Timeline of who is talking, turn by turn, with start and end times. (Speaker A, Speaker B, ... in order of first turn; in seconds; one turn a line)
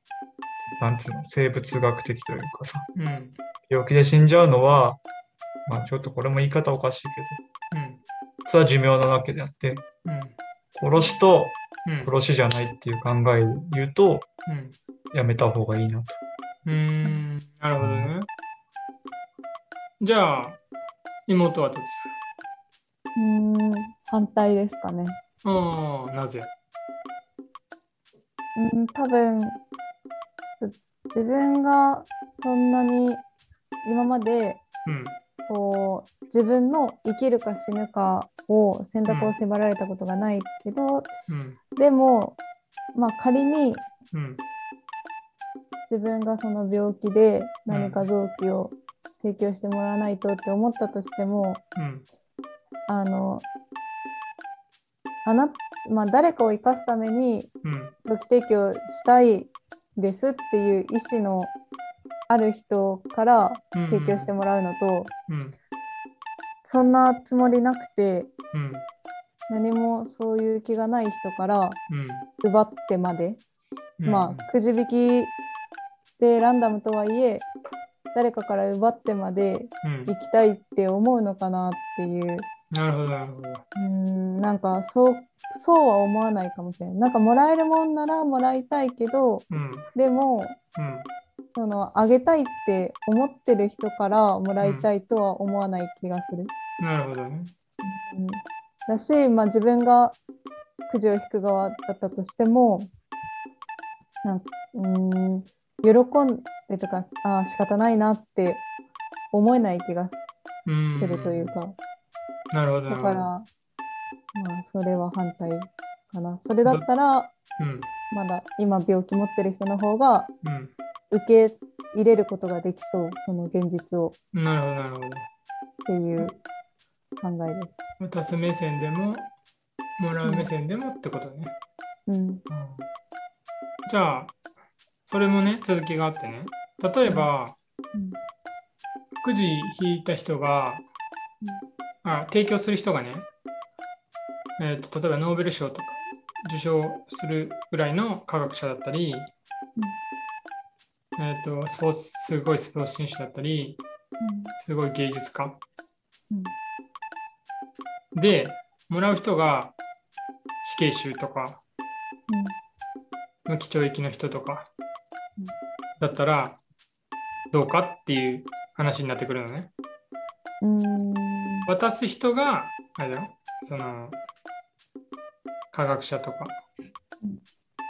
Speaker A: 0.8-2.9
Speaker B: 2.9-3.4
Speaker A: 3.7-5.0
Speaker A: 5.7-7.4
Speaker B: 7.7-8.0
Speaker A: 8.4-9.8
Speaker B: 10.0-10.3
Speaker A: 10.7-14.3
Speaker B: 11.8-12.1
Speaker B: 14.4-14.8
Speaker A: 15.1-16.2
Speaker B: 16.6-18.3
Speaker A: 17.8-18.1
Speaker B: 20.0-20.6
Speaker B: 21.3-22.1
Speaker C: 23.1-25.2
Speaker B: 25.4-26.5
Speaker C: 28.5-29.6
Speaker C: 30.6-33.2
Speaker C: 33.8-34.6
Speaker B: 34.8-35.2
Speaker C: 35.5-41.1
Speaker B: 39.1-39.4
Speaker B: 41.3-41.6
Speaker C: 41.8-42.4
Speaker C: 42.9-43.9
Speaker B: 44.1-44.4
Speaker C: 45.9-51.6
Speaker B: 47.7-48.1
Speaker B: 51.8-52.0
Speaker C: 52.9-53.5
Speaker C: 55.2-61.5
Speaker B: 57.6-57.9
Speaker C: 62.3-65.1
Speaker B: 63.7-64.3
Speaker B: 65.3-65.5
Speaker C: 66.6-68.3
Speaker B: 68.5-68.8
Speaker C: 69.5-71.8
Speaker B: 71.9-72.3
Speaker C: 72.4-73.4
Speaker B: 74.0-74.5
Speaker C: 74.0-75.3
Speaker C: 76.2-77.5
Speaker C: 78.1-82.5
Speaker B: 79.8-80.1
Speaker B: 82.7-83.6
Speaker C: 83.8-90.6
Speaker B: 89.5-89.9
Speaker B: 90.8-91.1
Speaker C: 91.5-96.5
Speaker B: 94.6-94.9
Speaker B: 96.8-97.5
Speaker C: 97.8-100.2
Speaker C: 100.9-102.9
Speaker C: 104.2-108.6
Speaker C: 109.3-110.3
Speaker B: 110.7-111.5
Speaker C: 111.0-111.8
Speaker B: 112.5-113.3
Speaker C: 112.9-113.5
Speaker C: 114.3-117.3
Speaker B: 117.6-117.9
Speaker C: 118.1-120.3
Speaker B: 120.4-120.7
Speaker C: 121.1-124.2
Speaker B: 124.3-125.3
Speaker C: 125.8-126.3
Speaker C: 127.2-127.7
Speaker B: 128.0-129.3
Speaker B: 130.0-131.5
Speaker C: 130.2-130.5
Speaker C: 132.1-132.4
Speaker B: 132.5-132.9
Speaker B: 133.8-134.3
Speaker B: 135.1-137.6
Speaker B: 139.2-140.8
Speaker B: 142.0-143.3
Speaker B: 144.6-149.3
Speaker B: 151.2-153.8
Speaker C: 154.2-154.5
Speaker B: 154.6-155.6
Speaker B: 158.1-159.8
Speaker B: 160.6-161.6
Speaker C: 162.3-162.6
Speaker B: 163.5-164.7
Speaker B: 166.0-166.6
Speaker B: 167.5-169.7
Speaker C: 170.6-171.7
Speaker B: 171.7-174.2
Speaker B: 175.7-176.6